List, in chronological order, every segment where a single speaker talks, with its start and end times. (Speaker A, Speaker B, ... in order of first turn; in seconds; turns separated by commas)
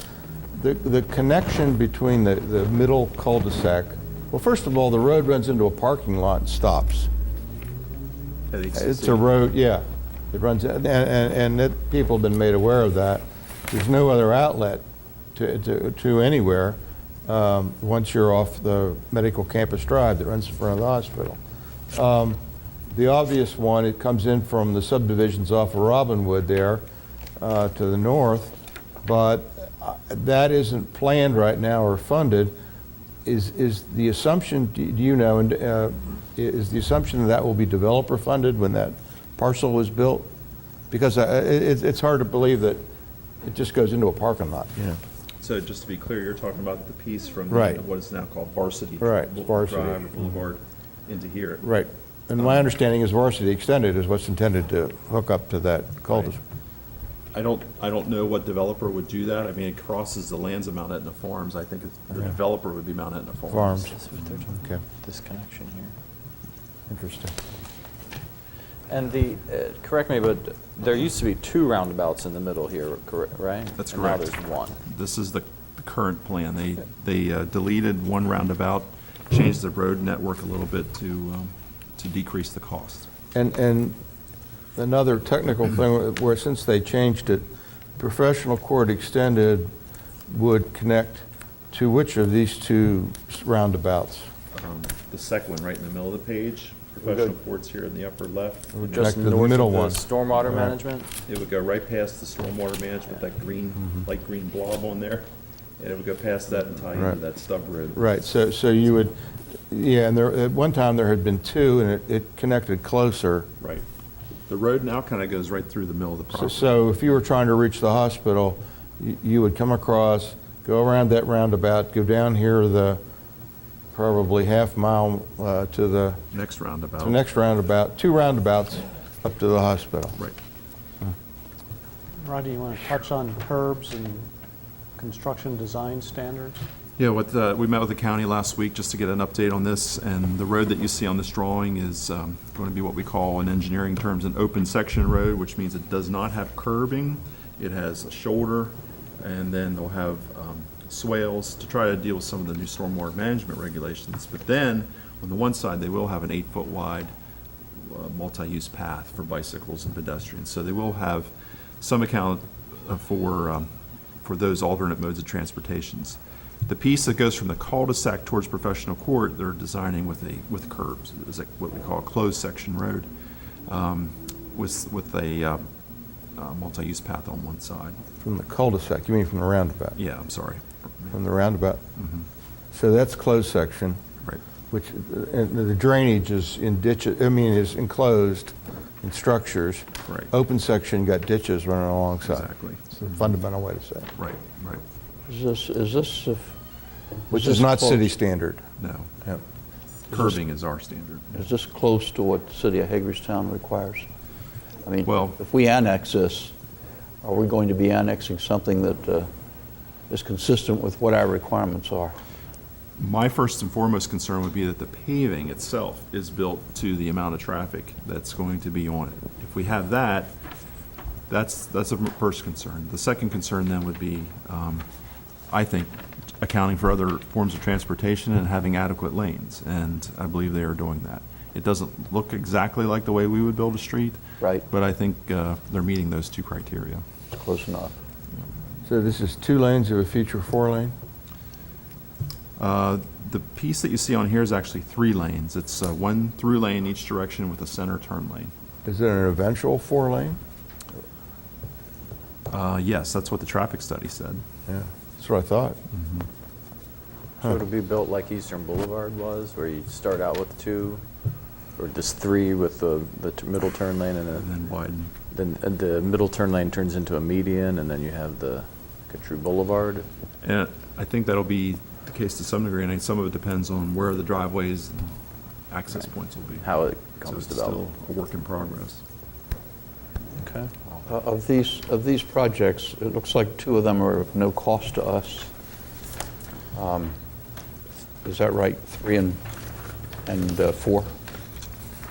Speaker A: 0.6-7.1, Speaker B: 8.5-9.3, Speaker A: 8.8-14.8, Speaker A: 15.3-21.4, Speaker A: 21.9-26.8, Speaker A: 27.4-32.5, Speaker A: 33.2-40.3, Speaker A: 40.9-42.8, Speaker A: 43.4-45.0, Speaker B: 45.4-51.6, Speaker A: 47.5-47.8, Speaker A: 49.0-50.1, Speaker A: 51.6-56.4, Speaker B: 52.4-52.7, Speaker B: 57.3-64.0, Speaker A: 63.5-64.8, Speaker C: 64.1-64.4, Speaker C: 65.0-65.9, Speaker A: 66.9-67.4, Speaker C: 68.9-74.8, Speaker B: 73.8-74.3, Speaker B: 74.9-83.1, Speaker A: 83.3-84.0, Speaker A: 84.8-87.5, Speaker A: 88.0-89.7, Speaker A: 90.3-94.3, Speaker B: 94.5-99.2, Speaker A: 98.8-100.8, Speaker C: 98.9-101.1, Speaker B: 101.3-105.3, Speaker B: 105.8-108.0, Speaker A: 107.9-109.2, Speaker A: 109.7-113.5, Speaker B: 113.6-113.8, Speaker B: 114.5-116.7, Speaker A: 116.3-123.0, Speaker A: 123.9-126.2, Speaker B: 126.3-127.2, Speaker A: 127.0-130.2, Speaker D: 132.2-134.3, Speaker D: 135.0-136.6, Speaker B: 137.0-157.1, Speaker B: 157.8-163.7, Speaker B: 164.2-173.1, Speaker B: 173.7-175.7, Speaker B: 176.4-178.0, Speaker A: 178.2-180.0, Speaker B: 180.0-181.2, Speaker A: 181.1-181.8, Speaker B: 182.0-182.3, Speaker A: 182.7-184.0, Speaker A: 184.7-194.1, Speaker B: 192.3-192.9, Speaker B: 194.2-194.8, Speaker E: 195.3-196.5, Speaker A: 197.3-198.7, Speaker E: 197.3-198.1, Speaker B: 198.8-199.1, Speaker B: 200.1-201.4, Speaker E: 201.3-204.1, Speaker E: 204.8-206.5, Speaker B: 205.0-205.4, Speaker E: 207.2-209.3, Speaker E: 210.1-212.2, Speaker B: 213.0-220.3, Speaker B: 221.3-224.8, Speaker B: 225.5-234.2, Speaker B: 234.7-237.0, Speaker E: 237.3-238.0, Speaker A: 238.9-240.9, Speaker B: 242.6-248.5, Speaker A: 248.8-250.4, Speaker B: 252.5-254.4, Speaker A: 254.7-255.8, Speaker C: 257.4-261.0, Speaker C: 261.8-264.5, Speaker B: 264.3-265.1, Speaker C: 265.3-270.1, Speaker B: 270.4-275.2, Speaker B: 275.7-276.7, Speaker C: 276.6-277.8, Speaker B: 277.3-279.0, Speaker C: 280.4-280.7, Speaker E: 281.1-285.5, Speaker E: 286.7-287.1, Speaker E: 288.2-289.4, Speaker E: 290.3-291.1